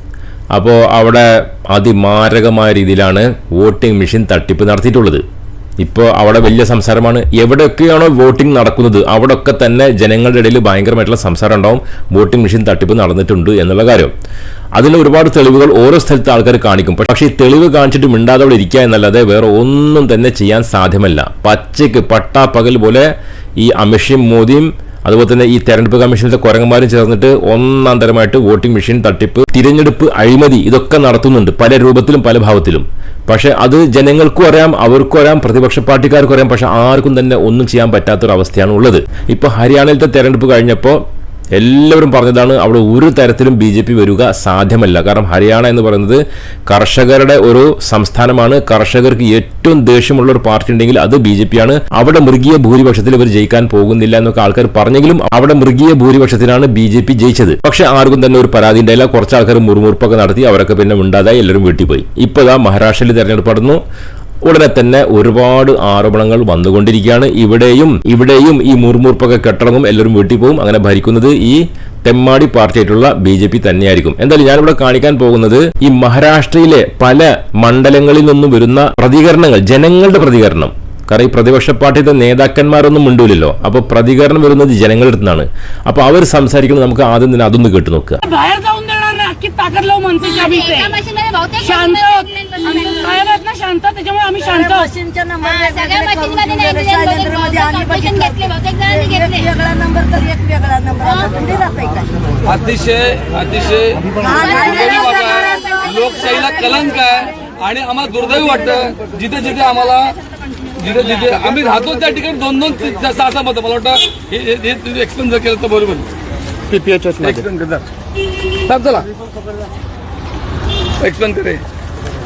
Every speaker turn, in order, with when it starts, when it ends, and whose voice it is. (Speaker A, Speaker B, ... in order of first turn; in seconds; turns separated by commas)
Speaker A: 0.6-5.2, Speaker A: 5.8-14.1, Speaker A: 14.8-23.1, Speaker A: 23.6-41.0, Speaker A: 41.6-63.8, Speaker A: 64.5-88.2, Speaker B: 88.2-91.0, Speaker C: 90.2-93.1, Speaker B: 91.6-94.9, Speaker D: 94.5-102.1, Speaker C: 95.4-99.5, Speaker E: 102.5-110.1, Speaker D: 104.2-105.4, Speaker C: 104.4-107.0, Speaker E: 110.8-116.1, Speaker E: 116.8-117.8, Speaker E: 118.7-119.1, Speaker E: 121.0-121.6